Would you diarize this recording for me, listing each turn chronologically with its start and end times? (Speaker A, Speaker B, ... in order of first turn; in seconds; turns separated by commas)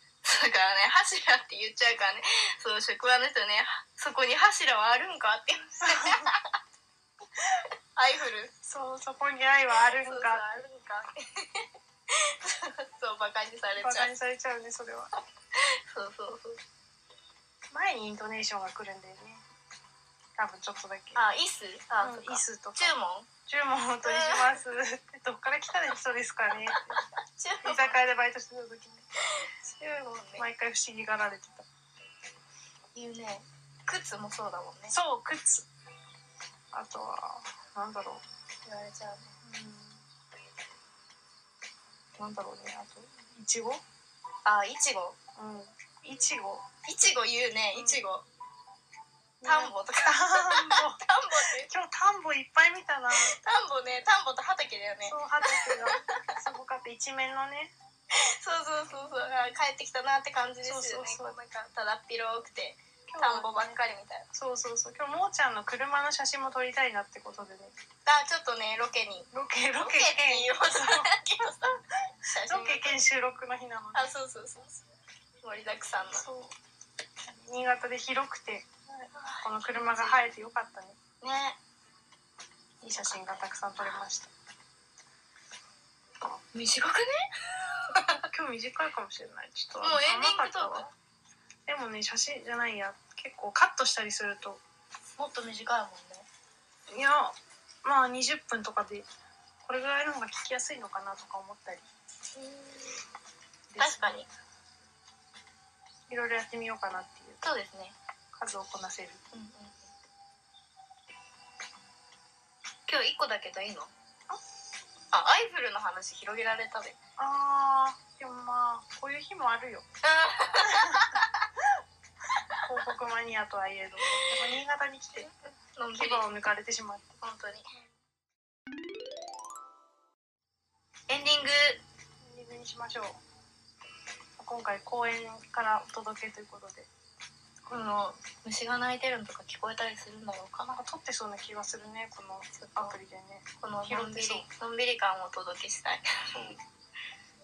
Speaker A: 0.2-6.4, Speaker B: 5.8-6.3, Speaker A: 8.0-8.5, Speaker B: 8.6-10.6, Speaker A: 10.0-11.7, Speaker A: 12.2-14.1, Speaker B: 13.8-15.1, Speaker A: 15.9-16.6, Speaker B: 17.7-19.4, Speaker B: 20.4-21.2, Speaker A: 21.1-23.3, Speaker B: 22.0-27.0, Speaker A: 24.0-24.6, Speaker A: 27.4-28.0, Speaker B: 27.6-29.1, Speaker A: 29.3-30.4, Speaker B: 30.4-31.6, Speaker A: 32.9-34.9, Speaker B: 34.9-35.7, Speaker B: 36.7-38.2, Speaker A: 38.6-39.3, Speaker B: 39.4-40.0, Speaker B: 42.2-43.8, Speaker A: 44.5-45.1, Speaker B: 45.4-46.6, Speaker A: 46.9-48.2, Speaker B: 47.7-48.0, Speaker B: 49.4-51.0, Speaker A: 49.4-51.7, Speaker B: 51.7-53.4, Speaker A: 53.2-56.1, Speaker B: 55.0-57.7, Speaker A: 58.2-64.3, Speaker B: 60.6-61.4, Speaker B: 63.1-63.8, Speaker B: 64.3-67.7, Speaker A: 68.0-73.0, Speaker B: 69.3-71.1, Speaker B: 72.4-74.1, Speaker A: 73.9-74.8, Speaker A: 75.4-76.2, Speaker B: 76.1-76.5, Speaker B: 77.3-81.0, Speaker A: 79.1-80.3, Speaker A: 81.2-81.6, Speaker B: 82.8-84.3, Speaker A: 86.2-87.1, Speaker A: 87.9-88.2, Speaker B: 88.3-90.9, Speaker A: 89.8-90.9, Speaker B: 91.7-94.6, Speaker A: 95.2-96.3, Speaker B: 96.9-99.0, Speaker B: 99.6-101.8, Speaker A: 102.3-103.0, Speaker B: 103.7-104.2, Speaker A: 103.8-104.3, Speaker B: 106.1-107.4, Speaker A: 107.4-108.0, Speaker B: 108.3-109.2, Speaker A: 109.3-109.9, Speaker A: 112.9-113.9, Speaker A: 115.1-117.0, Speaker B: 117.2-119.8, Speaker A: 120.0-121.4, Speaker B: 120.5-121.1, Speaker B: 122.6-125.3, Speaker A: 125.1-126.2, Speaker B: 125.9-127.2, Speaker A: 127.2-127.7, Speaker A: 131.1-131.8, Speaker B: 132.2-133.2, Speaker B: 134.4-136.9, Speaker A: 137.7-140.8, Speaker B: 140.7-144.5, Speaker A: 142.5-142.9, Speaker A: 143.6-146.1, Speaker B: 146.3-146.6